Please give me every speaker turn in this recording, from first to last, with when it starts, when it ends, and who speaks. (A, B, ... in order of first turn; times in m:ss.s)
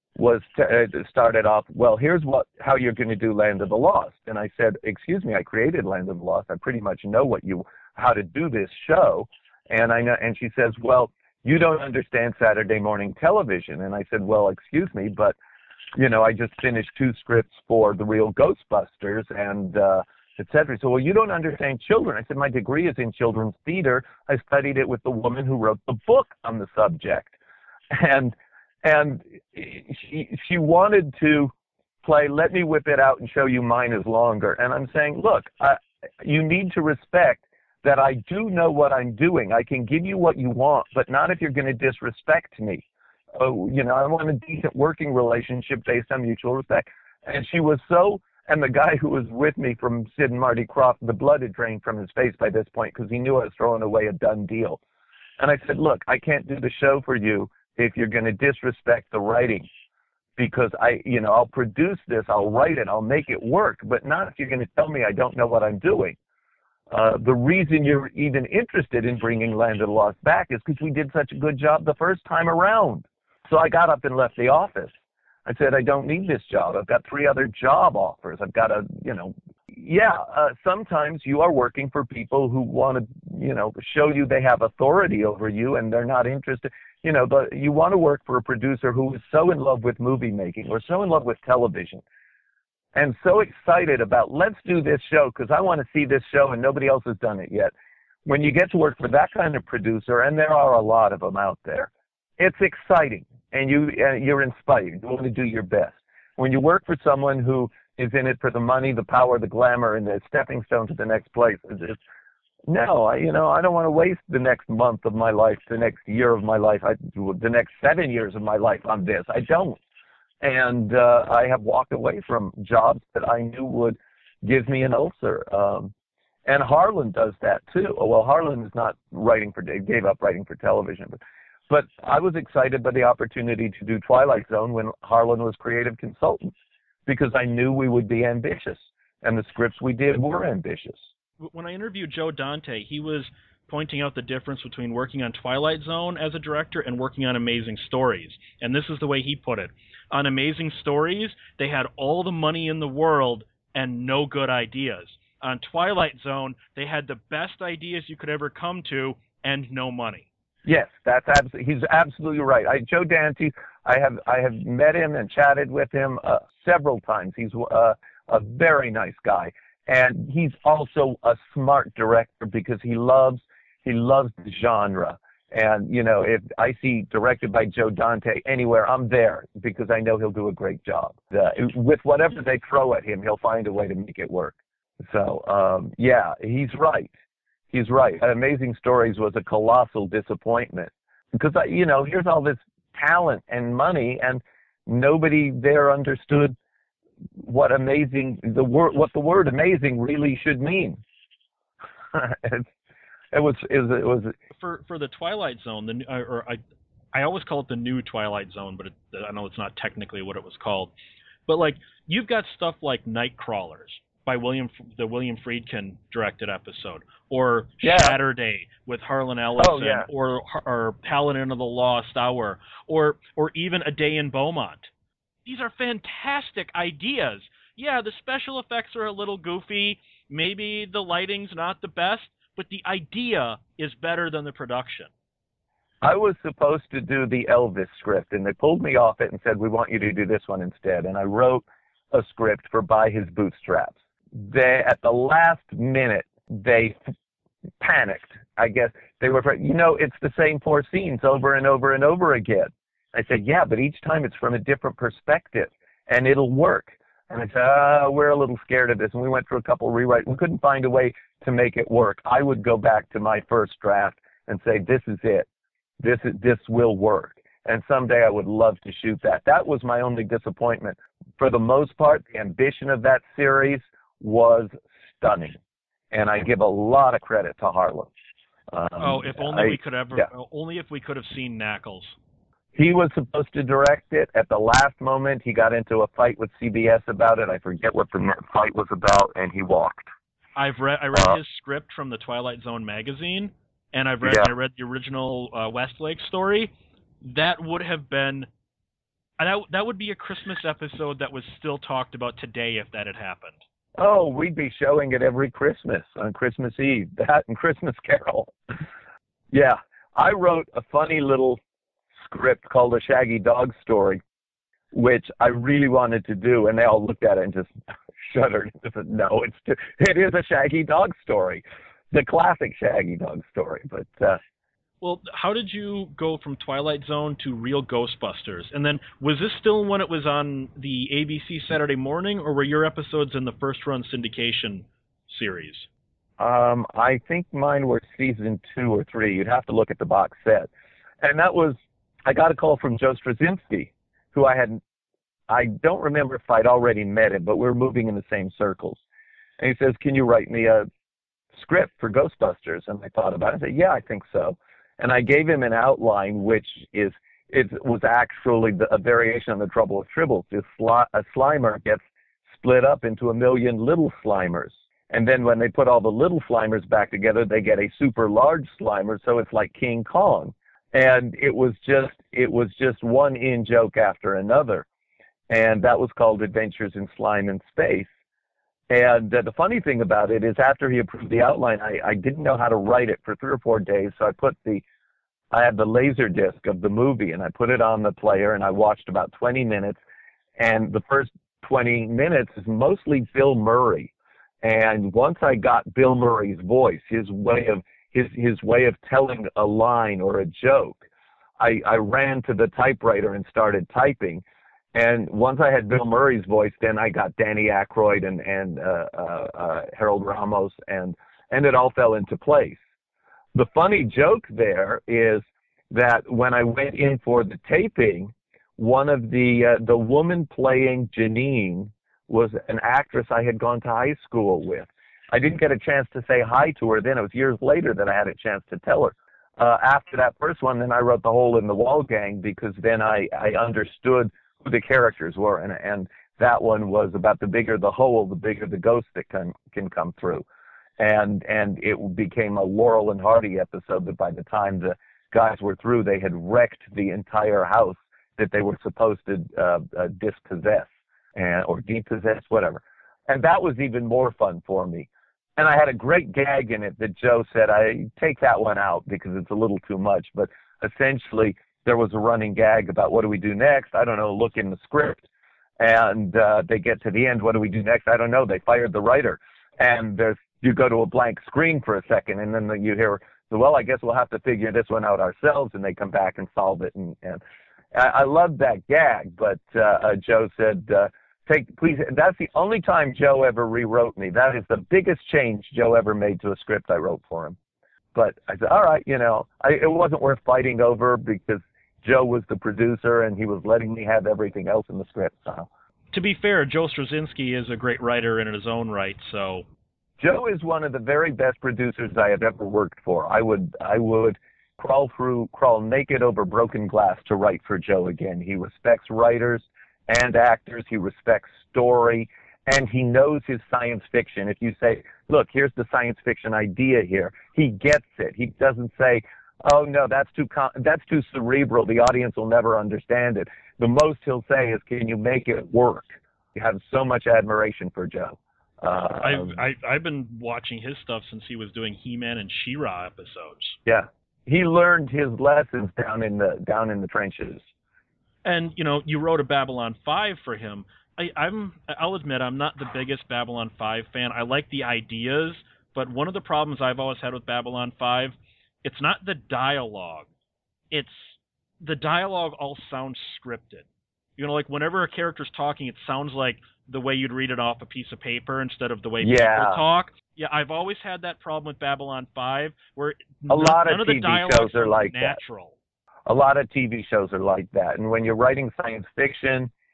0:00.2-0:15.4 A
0:15.9-0:27.3 A
0:27.9-0:31.5 A
0:32.0-0:42.8 A
0:43.4-0:54.8 A
0:55.4-0:59.7 A
1:00.4-1:06.2 A
1:06.9-1:14.9 A
1:15.4-1:32.0 A
1:32.9-1:37.7 A
1:38.2-1:52.0 A
1:52.7-1:59.8 A
2:00.4-2:05.9 A
2:06.4-2:16.5 A
2:17.0-2:21.0 A
2:21.4-2:40.3 B
2:40.6-3:07.1 A
3:07.7-3:16.6 A
3:17.4-3:21.0 A
3:22.1-3:22.7 A
3:23.3-3:24.3 A
3:24.5-3:26.6 B
3:27.1-3:30.9 B
3:31.5-3:44.9 B
3:37.8-3:38.2 A
3:39.6-3:40.1 A
3:45.4-3:55.1 B
3:56.0-4:07.0 A
4:07.8-4:25.5 A
4:26.0-4:35.6 A
4:36.1-4:38.1 A
4:38.7-4:40.3 A
4:39.0-4:42.1 B
4:42.7-4:50.1 A
4:50.6-4:56.7 B
4:54.2-4:54.5 A
4:57.2-4:58.5 B
4:59.4-5:03.6 B
5:04.0-5:08.5 A
5:09.5-5:11.6 A
5:12.2-5:14.2 A
5:14.9-5:24.4 A
5:25.0-5:35.9 B
5:36.4-5:40.7 A
5:41.2-5:44.8 A
5:45.5-5:49.0 A
5:49.6-5:50.9 A
5:51.5-6:14.8 A
6:15.5-6:18.1 A
6:18.9-6:24.8 A
6:25.5-6:30.0 A
6:30.6-6:41.0 A
6:41.6-6:52.8 A
6:53.5-7:20.4 A
7:21.0-7:45.2 A
7:45.8-7:57.4 A
7:57.9-8:07.6 A
8:08.1-8:15.7 A
8:16.1-8:19.6 B
8:20.2-8:49.6 A
8:49.2-8:53.8 B
8:53.8-8:57.6 A
8:58.4-9:10.3 B
9:10.9-9:13.8 B
9:14.4-9:25.7 B
9:19.2-9:19.8 A
9:23.5-9:25.4 A
9:26.2-9:29.7 A